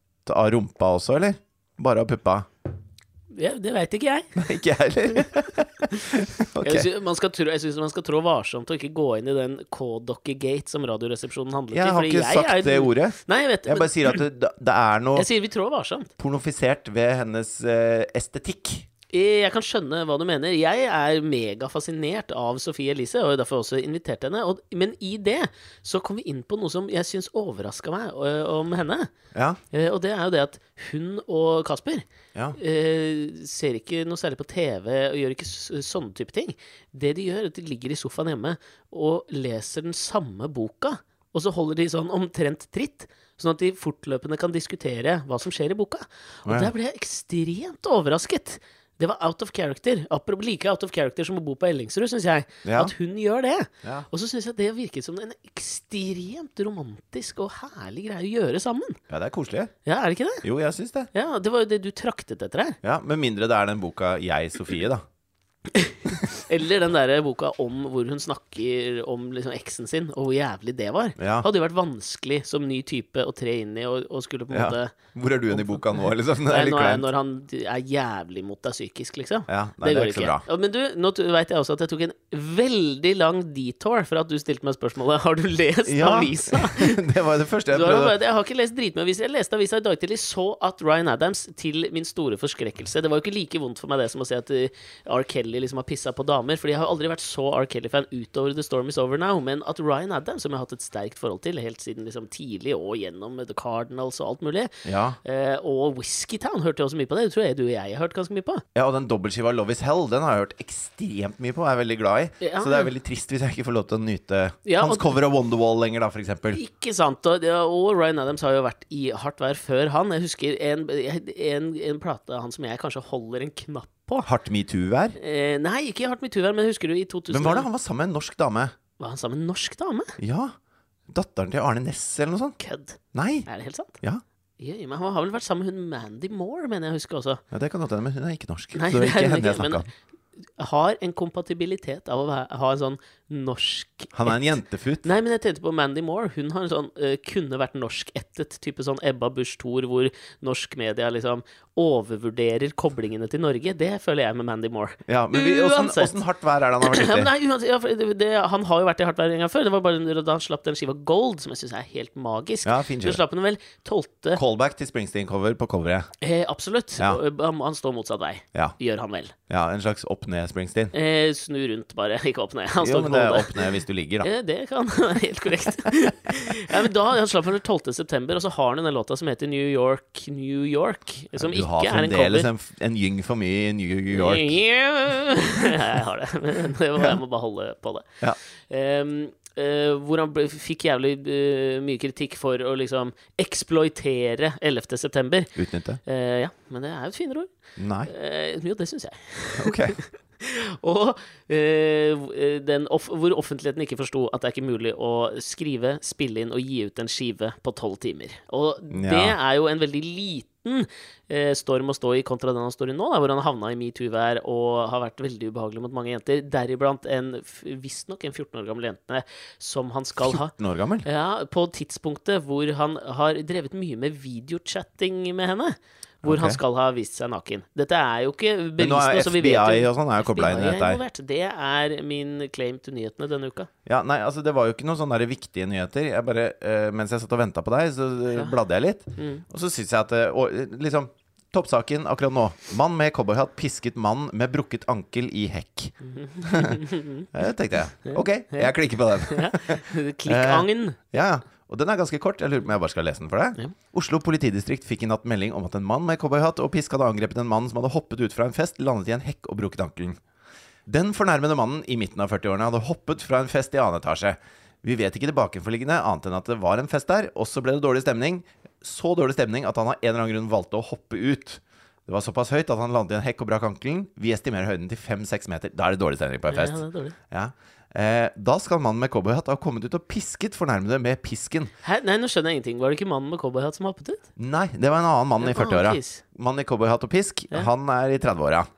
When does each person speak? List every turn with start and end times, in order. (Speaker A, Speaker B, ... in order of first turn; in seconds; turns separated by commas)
Speaker A: 0.2-2.5, Speaker B: 3.3-4.4, Speaker A: 4.3-6.9, Speaker B: 6.6-14.2, Speaker A: 11.7-15.3, Speaker B: 15.1-16.1, Speaker A: 16.2-18.9, Speaker B: 19.1-29.1, Speaker A: 29.3-29.6, Speaker B: 29.7-59.0, Speaker A: 46.4-46.7, Speaker A: 52.6-52.9, Speaker A: 59.1-59.7, Speaker B: 59.8-60.4, Speaker A: 60.4-61.1, Speaker B: 61.1-62.8, Speaker A: 62.8-65.0, Speaker B: 65.7-74.9, Speaker A: 71.2-71.5, Speaker A: 74.5-77.0, Speaker B: 75.5-75.8, Speaker B: 76.5-87.0, Speaker A: 79.5-80.4, Speaker A: 85.9-88.1, Speaker B: 87.7-108.6, Speaker A: 104.8-105.2, Speaker A: 108.7-116.6, Speaker B: 112.4-112.9, Speaker B: 114.7-115.2, Speaker B: 116.5-124.3, Speaker A: 124.2-125.2, Speaker B: 125.2-127.7, Speaker A: 127.3-128.7, Speaker B: 129.0-130.2, Speaker A: 130.2-130.5, Speaker A: 131.1-132.6, Speaker B: 132.6-134.0, Speaker A: 133.1-133.5, Speaker B: 134.6-137.4, Speaker A: 137.5-139.9, Speaker B: 138.7-139.8, Speaker B: 140.6-144.5, Speaker A: 144.1-145.1, Speaker B: 145.0-156.1, Speaker A: 155.1-157.3, Speaker B: 156.8-164.4, Speaker A: 162.6-163.2, Speaker A: 164.3-166.1, Speaker B: 166.2-169.3, Speaker A: 169.5-170.9, Speaker B: 170.9-173.7, Speaker A: 172.8-174.3, Speaker B: 174.2-182.5, Speaker A: 181.3-184.6, Speaker B: 184.1-195.5, Speaker A: 195.6-196.0, Speaker B: 196.0-197.5, Speaker A: 197.8-198.1, Speaker B: 198.1-220.5, Speaker A: 199.6-200.0, Speaker A: 208.9-209.3, Speaker A: 220.2-221.1, Speaker B: 221.0-233.7, Speaker A: 226.2-226.6, Speaker A: 228.8-231.0, Speaker A: 233.8-260.2, Speaker B: 239.2-239.4, Speaker B: 246.0-247.3, Speaker B: 248.0-248.7, Speaker B: 249.2-251.0, Speaker A: 260.9-281.7, Speaker B: 276.5-277.1, Speaker B: 281.8-284.2, Speaker A: 284.4-288.7, Speaker B: 285.4-286.2